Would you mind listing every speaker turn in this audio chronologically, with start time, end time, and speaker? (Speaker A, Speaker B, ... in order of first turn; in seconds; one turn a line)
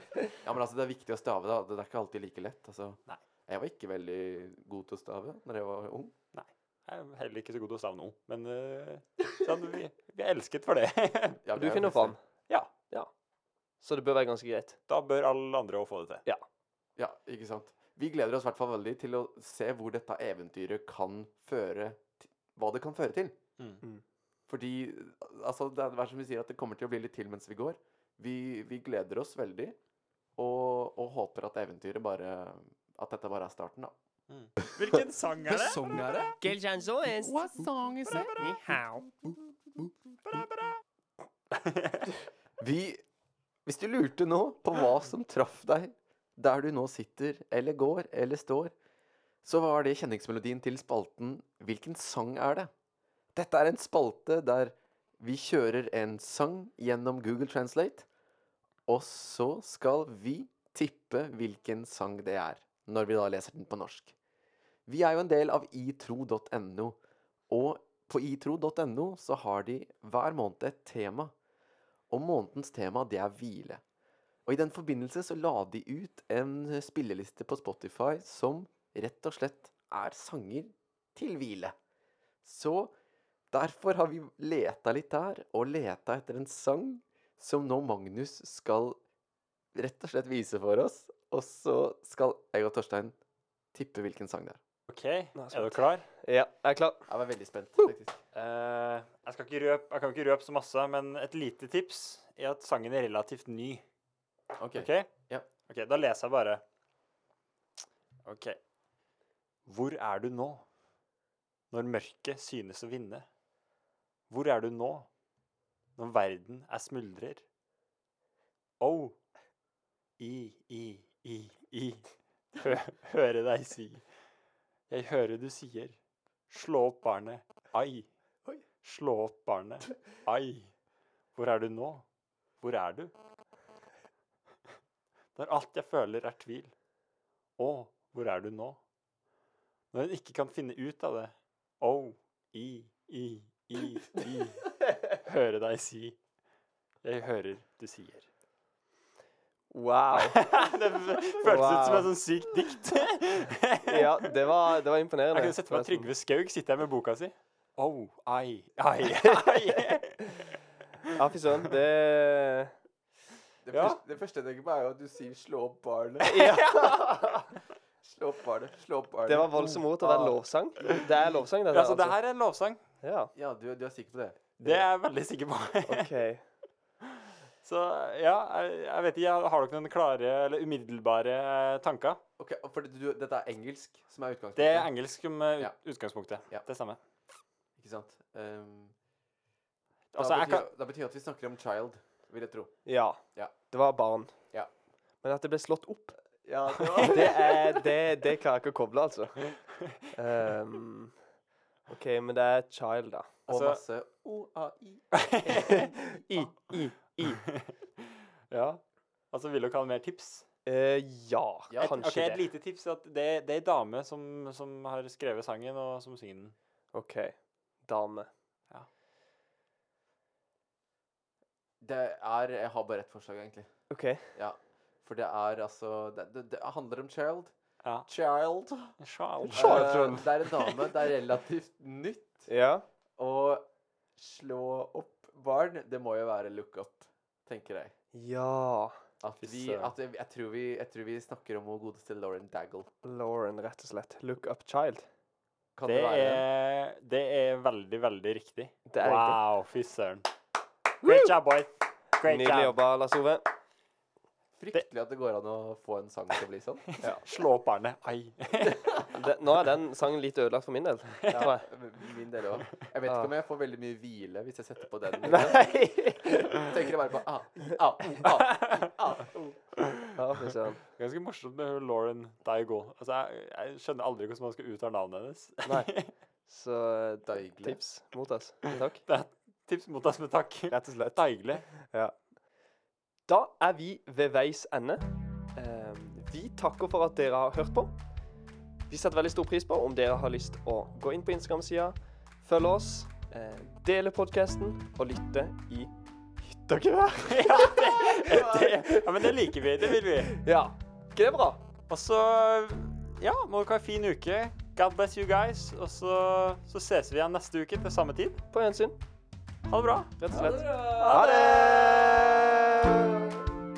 Speaker A: 0.4-6.1
Speaker B: 6.3-11.4
Speaker A: 11.4-12.2
Speaker C: 11.5-12.2
Speaker C: 12.8-13.1
Speaker C: 13.8-14.8
Speaker B: 14.9-16.2
Speaker A: 17.0-23.4
Speaker A: 24.5-29.8
Speaker A: 30.4-33.9
Speaker B: 34.3-35.8
Speaker A: 34.7-36.5
Speaker C: 36.4-37.7
Speaker A: 37.2-38.4
Speaker C: 38.4-39.1
Speaker B: 40.2-40.8
Speaker B: 41.5-42.1
Speaker A: 42.6-43.0
Speaker A: 43.6-48.7
Speaker A: 49.4-52.7
Speaker A: 53.3-58.1
Speaker A: 58.9-64.1
Speaker A: 64.9-67.0
Speaker A: 67.5-71.3
Speaker A: 72.1-73.8
Speaker A: 74.5-81.8
Speaker A: 82.4-82.9
Speaker A: 83.5-89.0
Speaker A: 89.7-93.1
Speaker A: 93.7-94.6
Speaker B: 94.9-96.1
Speaker C: 95.3-97.0
Speaker A: 97.1-98.2
Speaker B: 98.3-103.8
Speaker A: 104.6-105.5
Speaker B: 104.8-105.1
Speaker B: 105.7-106.6
Speaker B: 108.2-108.6
Speaker B: 109.7-110.6
Speaker B: 111.7-113.2
Speaker B: 114.3-115.1
Speaker B: 116.0-117.4
Speaker B: 118.8-119.2
Speaker B: 120.2-124.0
Speaker B: 124.9-126.0
Speaker B: 126.5-128.1
Speaker B: 128.8-130.7
Speaker B: 131.4-132.0
Speaker B: 132.6-133.1
Speaker B: 135.4-136.7
Speaker B: 137.6-138.8
Speaker B: 139.9-146.2
Speaker B: 147.0-148.2
Speaker C: 149.7-150.4
Speaker B: 150.1-154.3
Speaker C: 151.4-152.1
Speaker C: 153.9-156.1
Speaker B: 155.3-160.6
Speaker C: 161.2-162.7
Speaker A: 163.6-166.8
Speaker B: 163.7-164.0
Speaker C: 166.2-167.1
Speaker B: 166.2-167.5
Speaker A: 168.0-169.6
Speaker C: 169.2-172.2
Speaker B: 169.6-172.8
Speaker C: 173.0-173.3
Speaker A: 173.3-174.8
Speaker B: 174.6-176.1
Speaker C: 175.9-176.4
Speaker B: 177.6-182.2
Speaker A: 182.4-184.9
Speaker B: 184.6-187.0
Speaker A: 187.8-188.9
Speaker B: 190.1-190.7
Speaker A: 190.2-192.7
Speaker C: 192.9-194.3
Speaker C: 195.2-196.2
Speaker A: 196.4-197.6
Speaker B: 196.8-197.1
Speaker C: 197.0-199.5
Speaker C: 200.1-201.1
Speaker C: 201.9-203.3
Speaker A: 203.5-206.5
Speaker B: 203.5-203.8
Speaker B: 205.2-205.9
Speaker C: 205.6-207.4
Speaker B: 208.5-208.8
Speaker B: 209.3-210.4
Speaker C: 210.6-212.4
Speaker A: 211.7-212.0
Speaker B: 211.8-216.5
Speaker C: 216.9-218.3
Speaker A: 221.8-223.7
Speaker C: 223.9-224.3
Speaker A: 224.3-227.5
Speaker B: 227.8-228.1
Speaker A: 228.1-228.9
Speaker B: 229.0-230.7
Speaker C: 229.5-230.2
Speaker A: 229.5-232.5
Speaker C: 232.5-232.8
Speaker A: 233.2-237.9
Speaker C: 238.1-239.0
Speaker A: 239.2-242.9
Speaker B: 239.4-239.9
Speaker C: 243.0-245.1
Speaker A: 245.8-246.4
Speaker B: 245.8-250.3
Speaker C: 248.9-249.4
Speaker B: 251.0-252.8
Speaker C: 252.3-253.4
Speaker A: 254.6-256.9
Speaker B: 256.9-258.8
Speaker C: 259.1-261.7
Speaker A: 261.3-269.6
Speaker C: 263.1-263.3
Speaker C: 265.2-266.7
Speaker B: 268.2-268.8
Speaker C: 270.1-270.8
Speaker B: 271.0-276.1
Speaker C: 275.6-275.9
Speaker C: 276.4-279.0
Speaker A: 277.2-277.8
Speaker B: 278.7-281.7
Speaker C: 280.7-282.1
Speaker C: 283.3-285.0
Speaker C: 285.6-287.9
Speaker C: 288.9-295.9
Speaker C: 296.4-301.6
Speaker B: 297.3-300.3
Speaker B: 301.9-308.4
Speaker C: 308.5-308.9
Speaker B: 309.7-312.2
Speaker C: 310.2-312.3